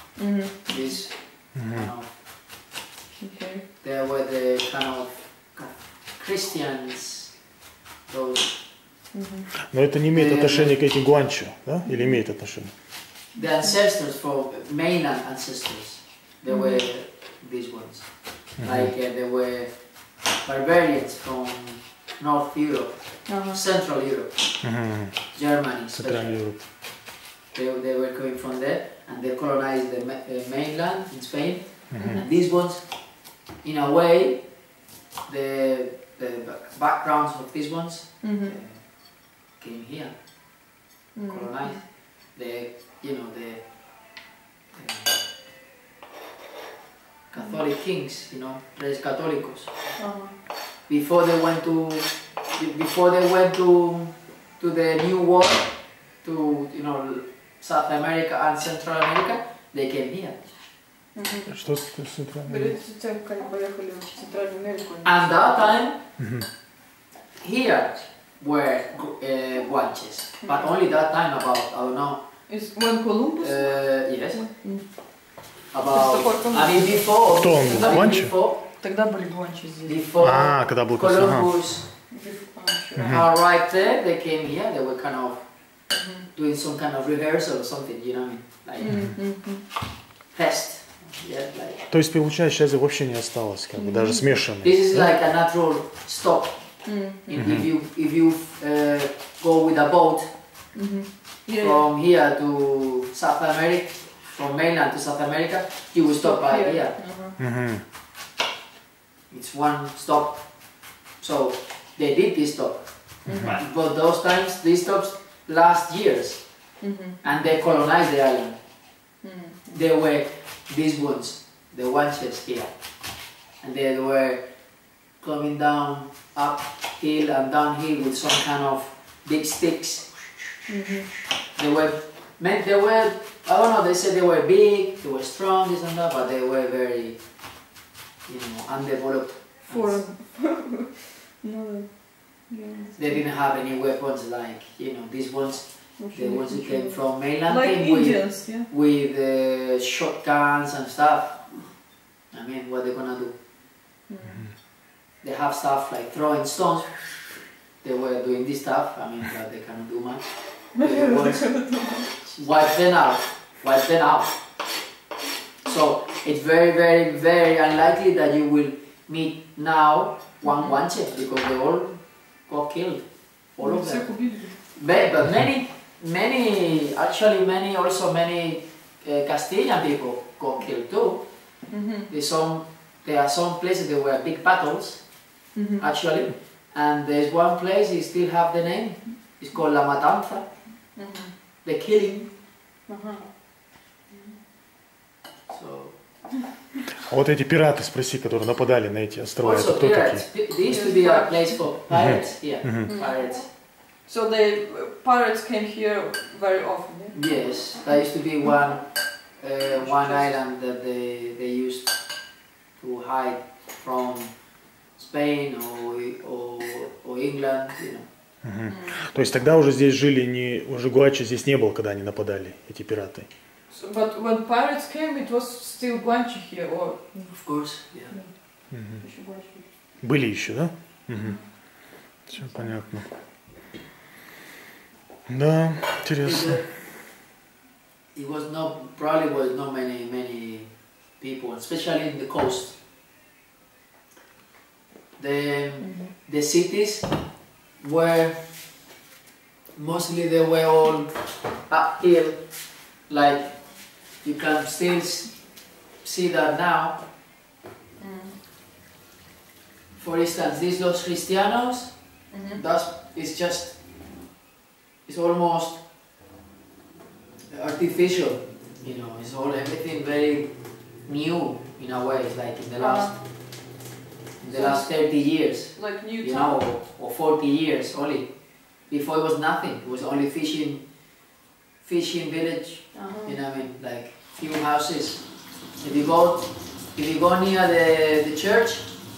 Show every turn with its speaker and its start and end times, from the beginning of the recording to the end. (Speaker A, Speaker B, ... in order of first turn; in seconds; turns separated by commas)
Speaker A: 0.2-0.9, Speaker B: 0.7-2.1, Speaker C: 1.5-1.9, Speaker A: 3.2-3.6, Speaker B: 3.8-7.3, Speaker B: 8.1-8.5, Speaker A: 9.1-9.5, Speaker C: 9.7-12.7, Speaker B: 10.1-10.8, Speaker A: 11.8-12.2, Speaker B: 13.3-19.8, Speaker A: 16.5-16.8, Speaker C: 18.6-18.9, Speaker B: 20.4-24.4, Speaker A: 23.3-23.6, Speaker C: 24.6-25.3, Speaker B: 25.3-26.6, Speaker C: 25.9-26.6, Speaker B: 27.5-32.9, Speaker C: 31.9-32.2, Speaker A: 32.0-32.3, Speaker B: 33.6-34.4, Speaker B: 35.2-40.1, Speaker A: 38.2-38.5, Speaker A: 41.1-41.8, Speaker B: 41.3-43.6, Speaker B: 44.7-45.2, Speaker B: 47.3-49.7, Speaker A: 50.0-50.3, Speaker B: 50.9-55.7, Speaker B: 56.2-60.5, Speaker A: 61.1-61.5, Speaker C: 61.5-62.7, Speaker A: 62.5-65.8, Speaker B: 65.0-66.0, Speaker C: 66.2-66.5, Speaker B: 67.4-72.2, Speaker A: 70.4-70.7, Speaker A: 72.5-74.8, Speaker B: 73.4-74.5, Speaker B: 75.7-78.6, Speaker A: 75.8-78.2, Speaker C: 77.3-78.3, Speaker A: 78.8-80.0, Speaker B: 79.8-81.9, Speaker C: 80.2-81.5, Speaker A: 82.1-83.2, Speaker C: 82.9-83.3, Speaker B: 83.0-85.5, Speaker A: 85.9-86.3, Speaker B: 86.3-89.0, Speaker A: 88.8-89.7, Speaker B: 90.3-91.8, Speaker C: 91.9-95.1, Speaker A: 93.7-94.4, Speaker B: 94.6-96.6, Speaker A: 96.8-97.4, Speaker B: 97.3-100.3, Speaker C: 97.3-97.7, Speaker A: 100.7-101.8, Speaker B: 101.6-107.0, Speaker A: 106.1-107.4, Speaker C: 107.4-107.8, Speaker B: 109.3-110.5, Speaker B: 111.2-116.4, Speaker A: 113.2-113.6, Speaker C: 113.2-113.6, Speaker A: 116.8-117.2, Speaker B: 117.2-118.6, Speaker A: 119.2-119.8, Speaker B: 119.7-122.7, Speaker B: 123.6-124.4, Speaker B: 125.2-130.4, Speaker A: 130.7-131.1, Speaker B: 131.6-137.2, Speaker B: 138.2-140.0, Speaker A: 139.7-143.2, Speaker B: 143.0-151.7, Speaker A: 146.0-148.7, Speaker B: 152.3-153.3, Speaker A: 154.1-154.5, Speaker C: 154.2-154.5, Speaker B: 155.2-157.0, Speaker B: 157.8-161.6, Speaker A: 160.8-162.4, Speaker B: 162.3-164.3, Speaker B: 165.6-171.9, Speaker A: 170.4-170.8, Speaker B: 172.4-181.3, Speaker A: 173.6-174.6, Speaker A: 181.7-182.1, Speaker B: 182.1-185.1, Speaker A: 185.5-185.8, Speaker B: 185.8-190.5, Speaker A: 190.9-191.3, Speaker B: 191.6-192.3, Speaker A: 192.9-194.4, Speaker B: 195.5-196.0, Speaker C: 197.0-200.5, Speaker B: 199.4-203.5, Speaker A: 200.7-201.6, Speaker C: 201.9-202.9, Speaker A: 202.9-207.2, Speaker B: 207.1-212.0, Speaker A: 209.7-210.3, Speaker B: 212.8-214.3, Speaker B: 214.9-218.1, Speaker C: 218.4-223.3, Speaker A: 218.7-219.1, Speaker A: 223.7-229.6, Speaker B: 227.3-228.2, Speaker C: 228.7-229.0, Speaker C: 230.0-233.1, Speaker A: 231.2-231.5, Speaker A: 232.2-232.7, Speaker C: 235.3-236.7, Speaker B: 236.2-236.7, Speaker B: 238.1-242.8, Speaker B: 245.2-247.1, Speaker A: 245.8-246.1, Speaker B: 247.8-248.4, Speaker B: 249.8-251.1, Speaker B: 251.7-252.4, Speaker B: 253.1-255.4, Speaker B: 256.0-257.0, Speaker A: 258.0-258.4, Speaker B: 259.9-261.9, Speaker A: 262.3-262.6, Speaker B: 262.5-263.8, Speaker B: 265.1-265.8, Speaker B: 267.5-270.5, Speaker B: 271.1-273.2, Speaker A: 272.8-273.1, Speaker B: 274.4-280.9, Speaker A: 274.5-276.7, Speaker B: 281.8-285.2, Speaker A: 282.9-283.4, Speaker B: 285.8-288.9